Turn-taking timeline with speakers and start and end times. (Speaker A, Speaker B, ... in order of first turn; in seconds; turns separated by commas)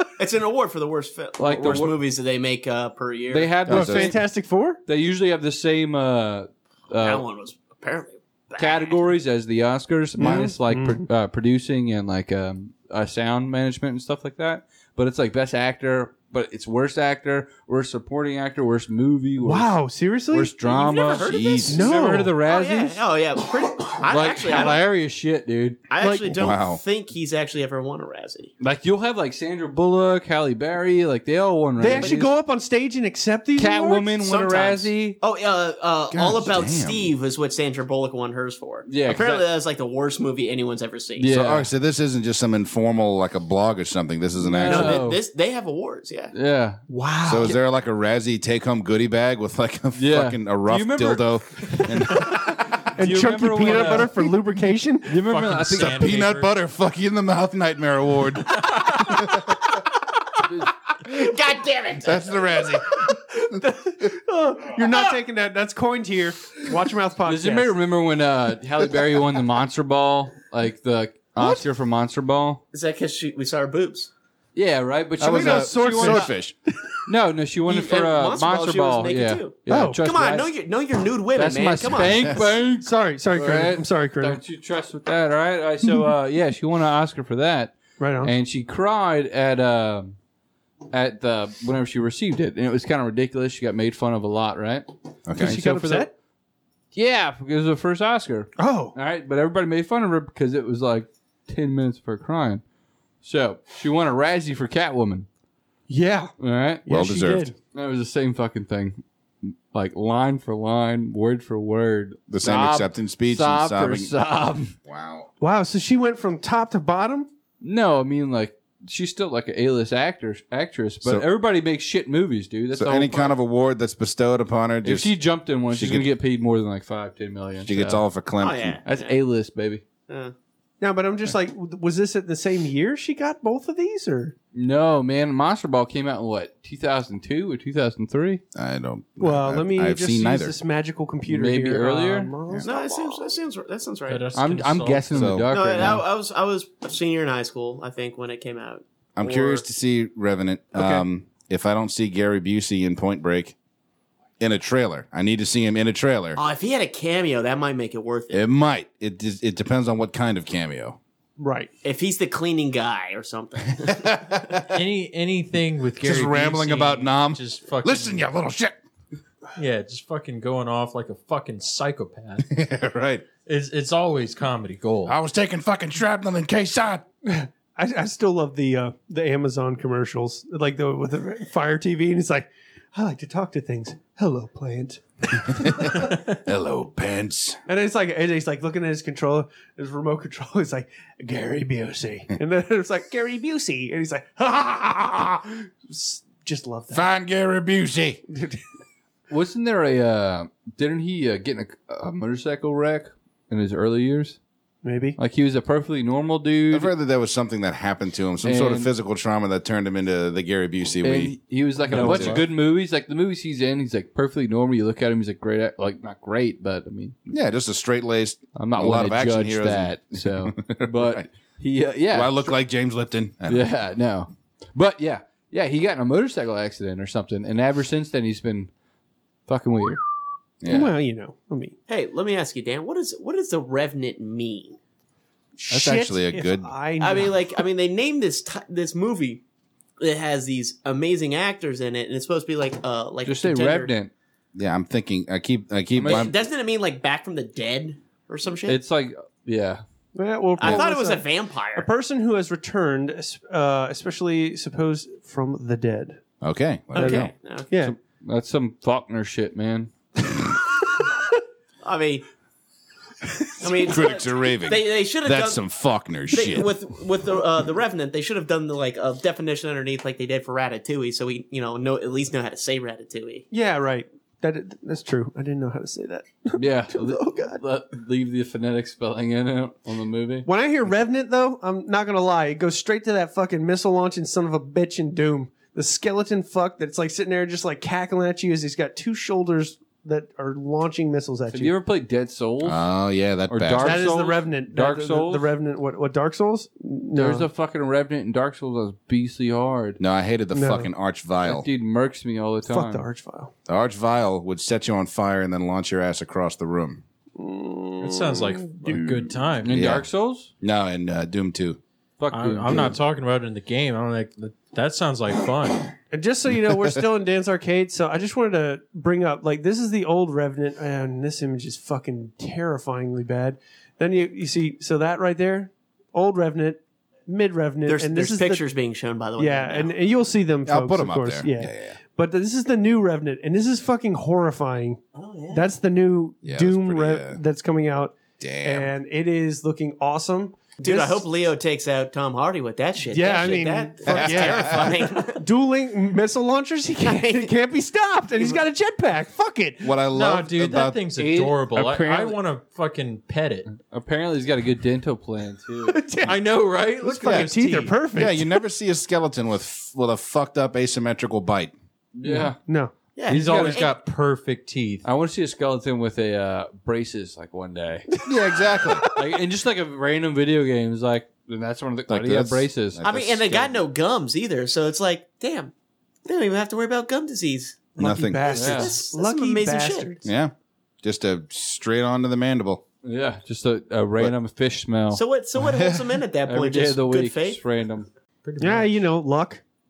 Speaker A: 0.2-3.6, Speaker B: 1.4-2.0, Speaker B: 3.3-4.2, Speaker C: 3.7-4.1, Speaker D: 3.7-4.8, Speaker B: 4.9-7.2, Speaker A: 7.0-9.0, Speaker B: 8.6-19.8, Speaker D: 10.2-11.1, Speaker D: 19.4-20.5, Speaker B: 20.3-23.0, Speaker A: 20.6-24.8, Speaker C: 21.1-21.8, Speaker D: 21.7-22.4, Speaker B: 24.1-25.8, Speaker A: 25.9-28.5, Speaker D: 26.0-26.4, Speaker C: 26.3-26.8, Speaker B: 28.6-32.3, Speaker D: 31.8-34.2, Speaker A: 31.9-32.2, Speaker B: 33.6-35.2, Speaker A: 34.2-41.3, Speaker C: 36.1-37.1, Speaker B: 38.9-39.5, Speaker B: 41.2-41.7, Speaker C: 41.3-45.0, Speaker B: 44.4-45.2, Speaker A: 44.6-46.3, Speaker B: 46.3-46.9, Speaker D: 46.9-47.6, Speaker C: 47.2-52.6, Speaker B: 50.0-54.4, Speaker D: 52.9-55.2, Speaker B: 55.0-56.2, Speaker E: 55.3-56.5, Speaker C: 55.8-59.6, Speaker A: 58.6-60.4, Speaker A: 61.0-62.7, Speaker C: 62.0-63.5, Speaker D: 63.1-67.7, Speaker B: 67.3-72.6, Speaker A: 72.7-74.1, Speaker B: 74.5-76.3, Speaker C: 75.2-76.6, Speaker D: 75.2-76.5, Speaker B: 77.1-80.5, Speaker A: 77.7-82.6, Speaker D: 79.7-80.0, Speaker B: 81.3-90.2, Speaker D: 82.7-84.4, Speaker D: 88.0-88.3, Speaker B: 90.9-96.1, Speaker C: 95.3-95.6, Speaker D: 95.4-96.1, Speaker B: 96.9-102.6, Speaker D: 98.6-99.0, Speaker B: 103.2-105.3, Speaker D: 105.9-106.3, Speaker B: 106.4-106.9, Speaker D: 106.9-107.5, Speaker C: 106.9-107.5, Speaker B: 107.7-114.8, Speaker C: 112.3-114.1, Speaker C: 114.8-115.3, Speaker D: 115.4-117.3, Speaker B: 117.6-123.4, Speaker C: 122.7-125.2, Speaker B: 124.8-128.1, Speaker C: 125.7-126.1, Speaker C: 127.6-128.8, Speaker A: 128.4-129.2, Speaker B: 128.8-129.8, Speaker A: 130.1-130.3, Speaker D: 130.8-134.3, Speaker B: 134.5-138.4, Speaker C: 138.6-140.6, Speaker D: 139.2-143.3, Speaker B: 141.3-142.3, Speaker A: 142.6-144.3, Speaker E: 144.1-145.2, Speaker B: 144.3-146.1, Speaker C: 145.1-145.8, Speaker A: 145.5-149.7, Speaker C: 149.2-153.6, Speaker D: 150.8-151.0, Speaker C: 154.4-156.4, Speaker A: 156.4-158.4, Speaker C: 158.3-161.0, Speaker D: 161.4-161.7, Speaker A: 161.8-164.6, Speaker C: 163.8-164.7, Speaker E: 164.7-168.2, Speaker C: 166.0-168.8, Speaker E: 169.6-172.5, Speaker C: 172.5-173.2, Speaker E: 173.5-175.2, Speaker C: 175.1-177.1, Speaker D: 177.2-186.3, Speaker C: 185.5-187.6, Speaker D: 187.7-197.0, Speaker C: 196.9-198.2, Speaker D: 198.3-198.6, Speaker B: 199.3-204.4, Speaker D: 204.8-205.2, Speaker B: 205.2-206.9, Speaker C: 206.7-212.5, Speaker B: 208.4-208.9, Speaker B: 211.0-217.2, Speaker E: 211.9-212.4, Speaker C: 217.3-221.3, Speaker B: 218.6-222.5, Speaker C: 222.1-223.7, Speaker B: 223.5-228.7, Speaker B: 229.5-230.0, Speaker C: 230.6-230.9, Speaker D: 230.7-231.8, Speaker A: 231.9-234.8, Speaker C: 235.6-236.7, Speaker D: 235.7-237.6, Speaker A: 237.0-239.4, Speaker A: 240.0-243.9, Speaker B: 243.2-244.1, Speaker C: 244.6-246.3, Speaker B: 246.0-246.3, Speaker A: 246.0-248.8, Speaker B: 248.7-249.8, Speaker D: 250.2-256.2, Speaker A: 250.6-251.9, Speaker C: 256.4-257.3, Speaker A: 256.9-257.7, Speaker D: 257.0-258.0, Speaker B: 257.8-259.9, Speaker A: 261.8-262.2, Speaker A: 263.6-265.6, Speaker C: 263.7-266.7, Speaker A: 266.3-273.4, Speaker D: 273.5-277.6, Speaker B: 276.6-280.5, Speaker D: 280.5-291.7, Speaker B: 291.5-292.9, Speaker C: 292.6-294.1, Speaker B: 293.5-295.5, Speaker D: 293.8-297.5, Speaker B: 297.1-300.0, Speaker C: 300.0-301.7, Speaker D: 300.5-300.9, Speaker B: 301.4-303.1, Speaker D: 302.7-303.5, Speaker C: 303.7-307.0, Speaker D: 307.4-309.1, Speaker E: 308.0-309.8, Speaker B: 309.6-310.5, Speaker C: 309.7-310.1, Speaker C: 310.6-311.8, Speaker B: 312.2-313.0, Speaker E: 312.3-315.9, Speaker D: 316.1-328.6, Speaker A: 327.9-329.9, Speaker D: 329.4-341.3, Speaker C: 330.6-332.0, Speaker A: 335.1-335.7, Speaker C: 336.4-337.4, Speaker C: 338.4-338.9, Speaker A: 340.8-345.4, Speaker D: 343.1-350.1, Speaker C: 344.1-344.9, Speaker A: 347.0-347.5, Speaker C: 349.8-351.0, Speaker E: 350.1-353.7, Speaker B: 351.2-352.4, Speaker B: 353.7-356.0, Speaker D: 355.9-356.4, Speaker E: 356.2-358.0, Speaker D: 357.0-358.6, Speaker C: 358.1-361.7, Speaker B: 362.1-362.6, Speaker D: 362.2-362.9, Speaker A: 363.1-363.9, Speaker B: 363.3-363.9, Speaker E: 363.3-365.0, Speaker B: 365.0-368.1, Speaker C: 368.2-369.1, Speaker D: 368.3-369.2, Speaker B: 369.1-373.0, Speaker C: 372.1-373.8, Speaker A: 373.0-375.7, Speaker A: 376.2-377.9, Speaker D: 378.0-380.3, Speaker C: 378.0-378.6, Speaker A: 378.5-380.1, Speaker B: 378.5-379.0, Speaker C: 380.2-382.8, Speaker B: 383.0-385.2, Speaker A: 385.1-387.6, Speaker C: 385.6-386.1, Speaker B: 386.4-388.1, Speaker E: 388.4-388.9, Speaker D: 388.6-389.6